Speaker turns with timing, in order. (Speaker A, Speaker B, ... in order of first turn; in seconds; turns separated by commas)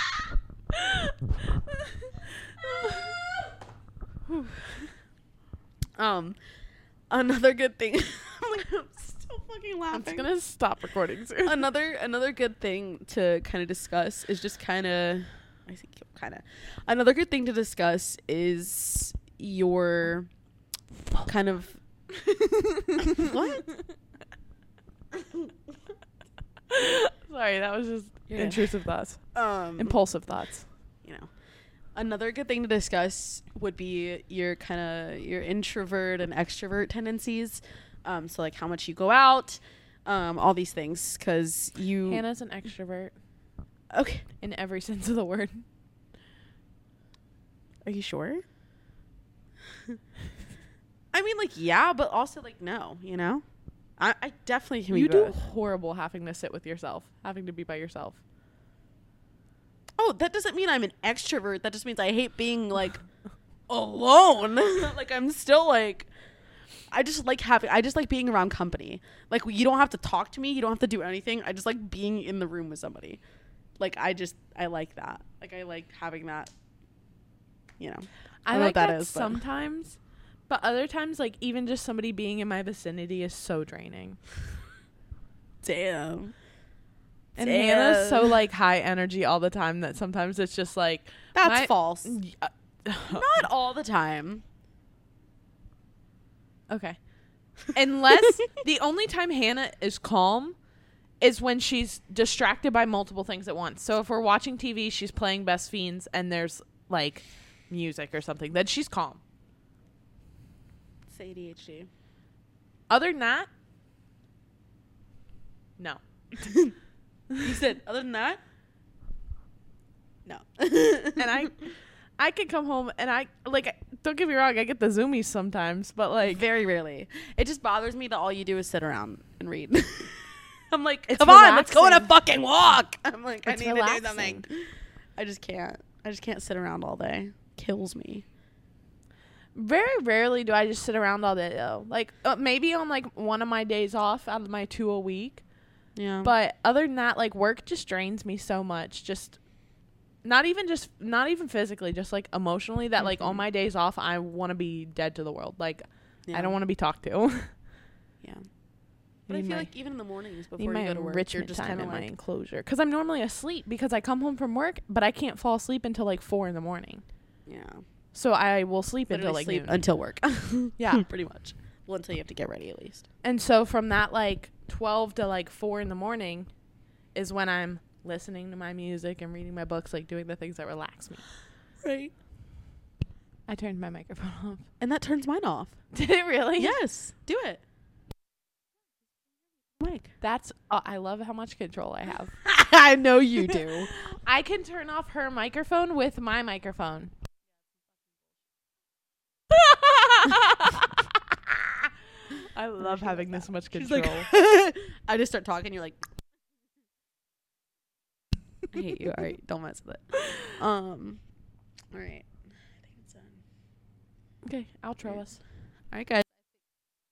Speaker A: 0.7-1.9, Speaker B: 2.6-3.4, Speaker A: 2.8-3.1, Speaker B: 6.0-6.4, Speaker B: 7.1-10.3, Speaker A: 9.9-11.6, Speaker B: 11.4-20.3, Speaker B: 21.2-21.8, Speaker A: 22.6-23.3, Speaker B: 22.9-23.8, Speaker B: 25.1-25.5, Speaker A: 26.7-29.2, Speaker B: 28.3-28.7, Speaker B: 29.3-30.0, Speaker A: 29.8-30.6, Speaker B: 31.0-31.3, Speaker B: 31.9-42.2, Speaker A: 42.1-43.1, Speaker B: 43.9-44.2, Speaker A: 44.4-45.6, Speaker B: 47.8-48.4, Speaker B: 51.1-53.4, Speaker B: 54.0-55.4, Speaker A: 54.9-58.2, Speaker B: 60.0-63.0, Speaker B: 63.7-66.1, Speaker B: 66.9-73.2, Speaker B: 73.8-76.5, Speaker B: 77.8-79.4, Speaker A: 78.4-84.2, Speaker B: 85.6-86.3, Speaker B: 87.3-88.3, Speaker A: 87.4-93.4, Speaker B: 91.3-92.1, Speaker B: 93.1-94.4, Speaker A: 96.7-97.0, Speaker A: 97.7-100.6, Speaker A: 101.2-109.2, Speaker B: 111.1-111.9, Speaker A: 112.9-113.5, Speaker B: 116.4-116.7, Speaker B: 117.4-118.4, Speaker B: 120.2-121.5, Speaker A: 121.2-126.4, Speaker B: 126.2-138.2, Speaker A: 131.1-132.1, Speaker A: 133.4-134.4, Speaker A: 139.5-145.4, Speaker B: 145.9-146.3, Speaker A: 146.2-149.4, Speaker A: 150.2-157.5, Speaker B: 153.0-153.4, Speaker B: 156.3-156.6, Speaker B: 159.3-162.1, Speaker A: 159.3-159.7, Speaker A: 160.6-167.0, Speaker B: 167.4-167.8, Speaker A: 168.1-169.8, Speaker B: 169.1-173.1, Speaker A: 170.8-171.0, Speaker A: 173.2-176.5, Speaker A: 177.1-181.2, Speaker B: 181.8-182.1, Speaker A: 183.5-184.7, Speaker B: 184.8-185.8, Speaker A: 185.9-186.8, Speaker B: 186.6-187.6, Speaker B: 189.8-190.1, Speaker A: 190.2-192.4, Speaker B: 192.4-193.9, Speaker A: 193.7-197.1, Speaker A: 199.5-201.0, Speaker A: 202.2-204.3, Speaker B: 202.8-206.0, Speaker B: 208.7-211.2, Speaker B: 211.9-213.4, Speaker A: 214.4-215.4, Speaker B: 215.9-216.3